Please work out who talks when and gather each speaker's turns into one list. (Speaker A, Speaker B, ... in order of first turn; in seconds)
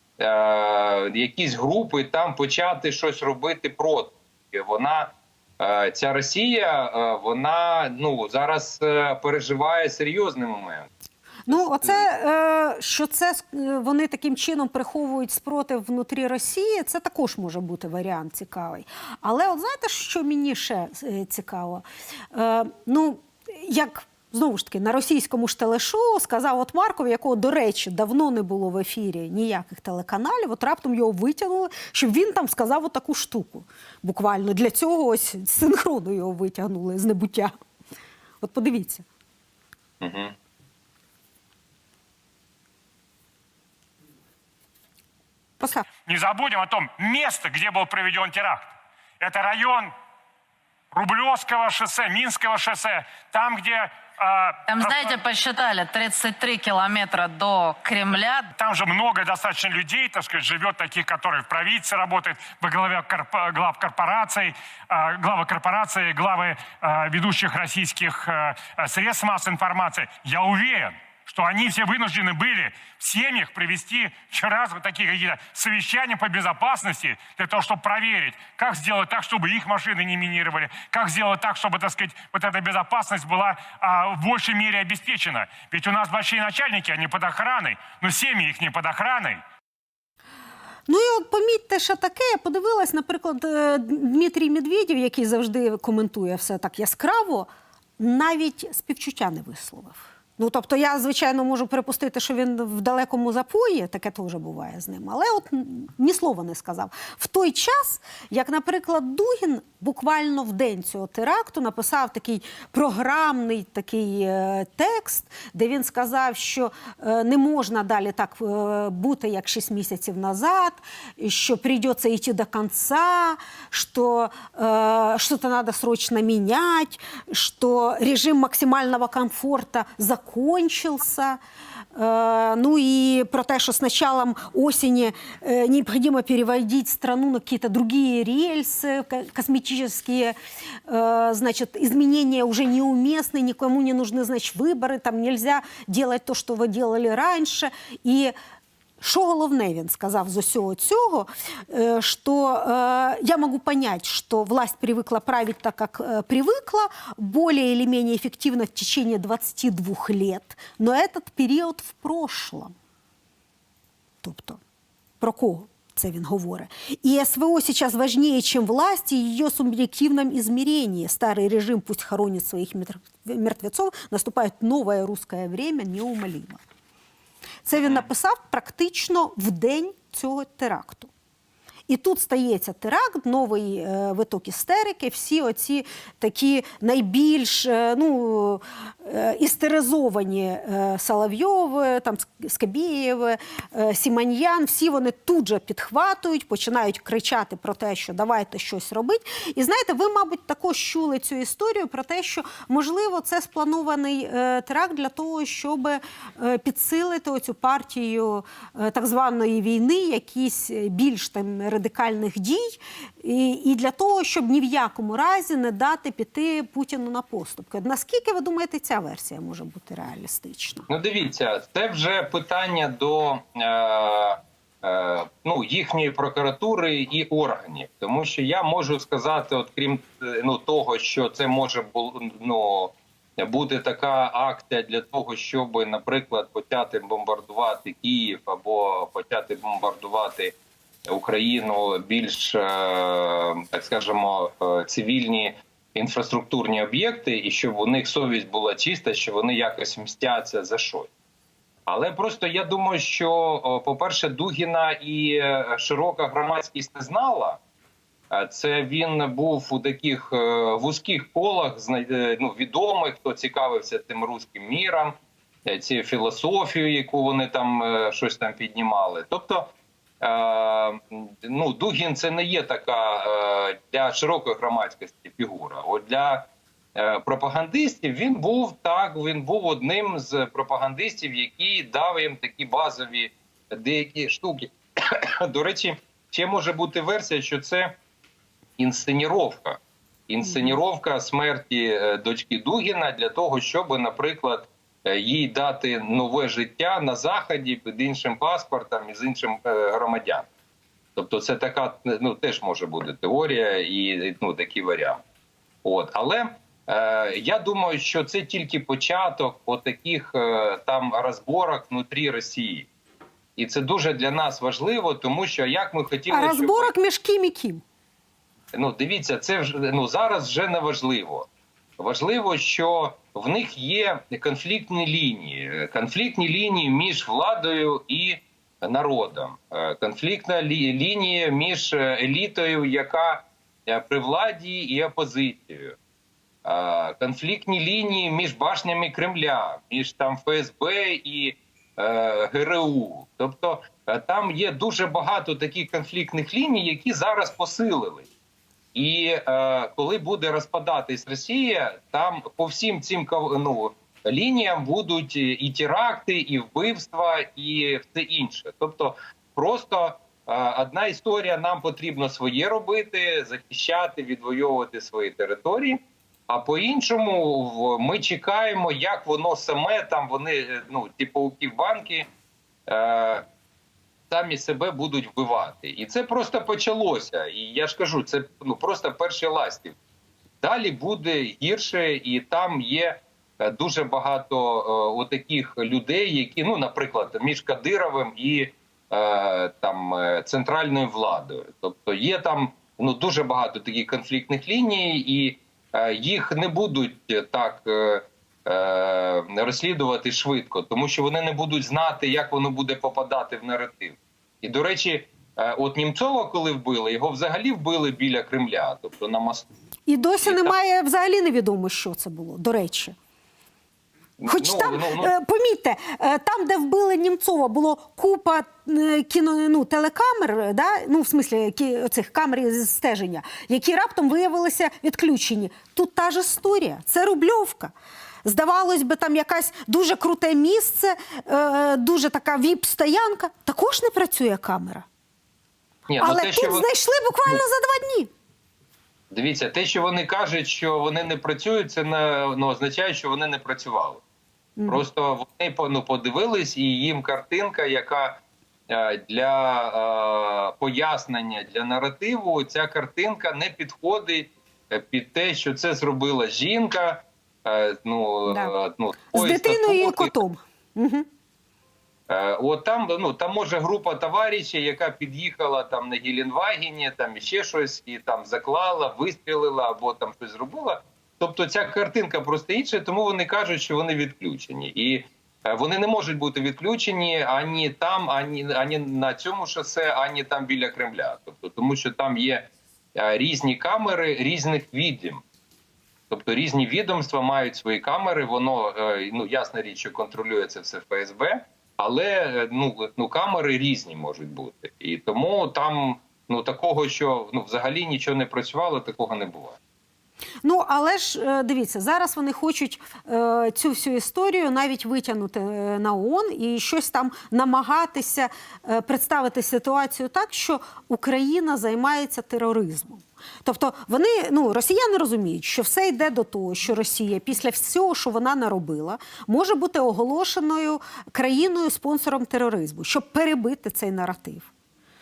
Speaker A: 0.2-10.9, 11.5-12.1, 40.0-40.4, 177.8-178.1, 220.9-240.6, 241.1-251.1, 251.9-257.6, 258.3-288.0, 288.8-300.5, 301.2-305.2, 305.8-312.9, 313.6-316.9, 318.7-321.5, 322.0-336.0, 336.6-348.3, 348.9-372.3, 372.9-373.5, 374.3-380.0, 380.6-409.7, 410.4-410.8, 414.4-415.3, 436.1-436.9, 439.3-444.2, 444.9-460.3, 462.3-485.4, 486.3-499.8
Speaker B: 11.5-37.5, 38.4-39.0, 45.6-45.9, 90.9-131.4, 131.9-140.4, 140.9-148.3, 149.0-162.7, 164.2-164.6, 165.2-176.6, 177.7-181.1, 181.9-220.9, 316.3-317.8, 410.1-413.1, 414.5-427.9, 428.4-435.1, 436.2-438.3, 444.8-445.0, 458.5-458.8, 459.3-461.3, 500.6-524.7
Speaker C: 46.1-48.7, 49.2-49.9, 50.9-55.1, 58.6-89.4
Speaker D: 54.7-58.5